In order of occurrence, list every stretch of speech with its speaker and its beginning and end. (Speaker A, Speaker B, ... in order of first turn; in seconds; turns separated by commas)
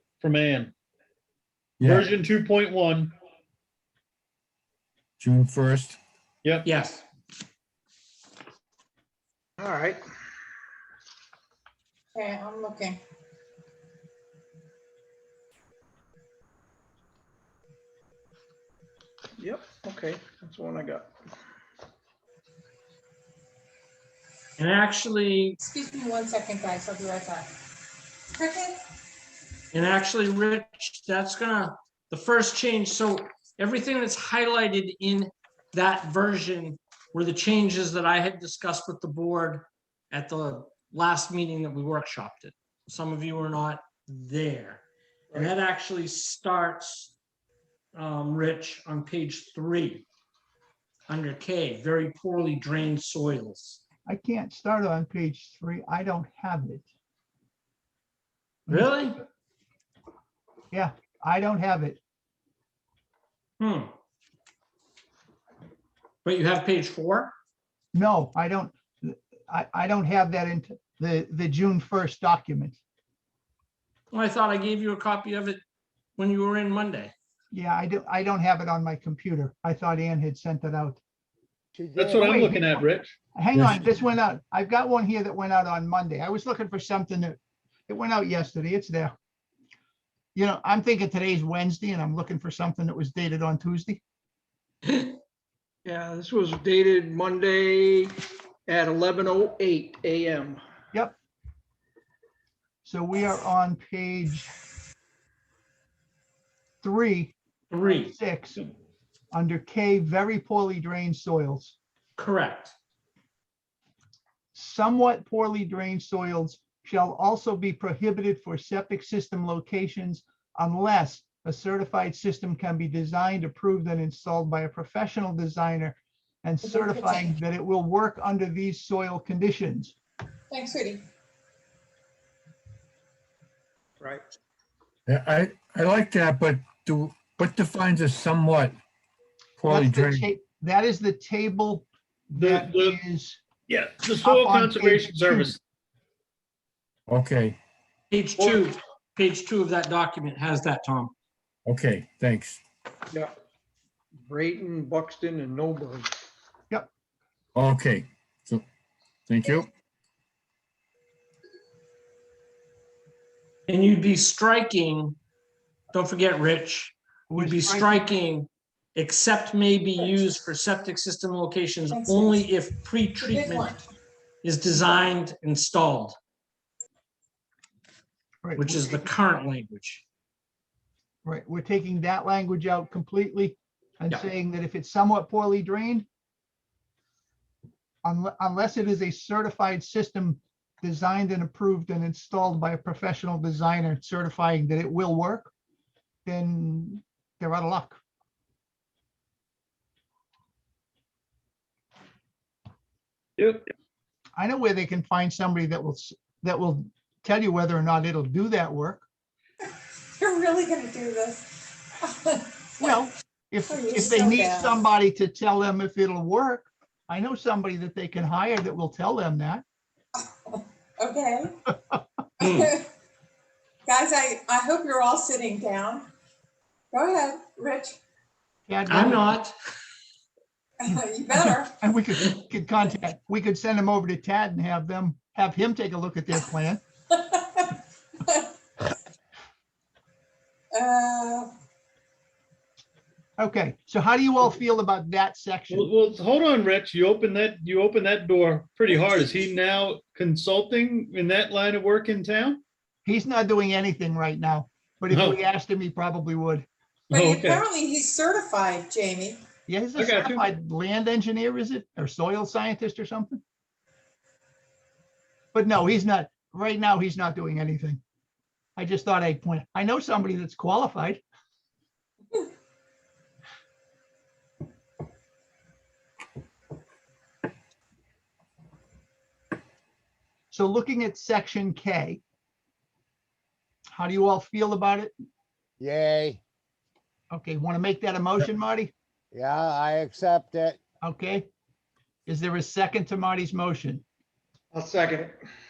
Speaker A: 0.2-0.7, Speaker B: 1.8-2.2, Speaker A: 1.8-3.1, Speaker B: 5.2-6.0, Speaker C: 6.7-7.0, Speaker D: 9.6-10.0, Speaker E: 12.1-13.0, Speaker D: 19.4-21.1, Speaker C: 24.6-25.6, Speaker E: 25.6-27.5, Speaker E: 28.3-28.8, Speaker C: 29.7-47.1, Speaker C: 48.0-50.1, Speaker C: 51.1-53.8, Speaker F: 54.1-56.9, Speaker F: 58.7-59.1, Speaker C: 58.7-59.2, Speaker F: 60.7-62.0, Speaker C: 63.6-63.9, Speaker C: 66.2-67.3, Speaker F: 67.9-72.8, Speaker C: 74.1-75.6, Speaker C: 76.2-77.1, Speaker F: 77.5-81.0, Speaker G: 81.8-82.4, Speaker A: 82.0-83.1, Speaker F: 82.2-82.8, Speaker F: 83.3-87.4, Speaker B: 83.5-83.9, Speaker F: 87.9-89.2, Speaker F: 90.3-94.0, Speaker D: 95.8-98.1, Speaker D: 98.7-100.6, Speaker F: 102.8-104.5, Speaker F: 106.8-107.3, Speaker C: 107.7-108.2, Speaker F: 108.0-108.6, Speaker F: 109.3-111.8, Speaker C: 112.2-112.7, Speaker F: 114.5-129.9, Speaker E: 126.7-127.3, Speaker E: 130.5-131.0, Speaker B: 135.1-138.8, Speaker B: 139.6-140.3, Speaker F: 139.7-143.4, Speaker A: 142.4-143.0, Speaker A: 143.7-145.6, Speaker F: 144.2-145.6, Speaker B: 147.1-147.6, Speaker C: 148.1-151.1, Speaker A: 148.4-148.7, Speaker B: 151.7-152.6, Speaker D: 154.3-156.1, Speaker B: 157.6-158.6, Speaker B: 159.3-159.7, Speaker C: 163.7-165.2, Speaker C: 165.9-173.8, Speaker F: 167.3-168.1, Speaker E: 171.9-172.4, Speaker E: 173.2-173.8, Speaker C: 174.4-176.2, Speaker F: 178.4-179.0, Speaker C: 178.6-180.0, Speaker F: 181.2-186.1, Speaker F: 188.0-195.5, Speaker F: 196.3-198.0, Speaker A: 203.4-203.7, Speaker F: 204.4-209.0, Speaker E: 210.1-212.9, Speaker F: 212.8-219.6, Speaker E: 213.7-214.8, Speaker E: 220.2-221.6, Speaker E: 222.4-222.9, Speaker C: 222.4-222.7, Speaker E: 223.9-226.1, Speaker E: 226.9-228.0, Speaker F: 228.7-229.3, Speaker C: 228.9-229.5, Speaker E: 230.8-231.8, Speaker F: 231.3-236.8, Speaker E: 237.1-238.5, Speaker E: 240.7-241.5, Speaker F: 243.4-245.9, Speaker A: 245.7-252.6, Speaker F: 253.1-256.7, Speaker A: 255.1-255.4, Speaker E: 257.1-259.4, Speaker A: 257.1-257.7, Speaker F: 259.7-263.4, Speaker A: 259.9-260.5, Speaker F: 265.5-268.0, Speaker F: 268.8-271.2, Speaker F: 280.5-282.2, Speaker F: 283.9-285.1, Speaker G: 285.8-286.4, Speaker F: 287.3-288.9, Speaker G: 289.3-290.8, Speaker F: 291.0-291.5, Speaker F: 292.3-294.0, Speaker D: 294.7-295.3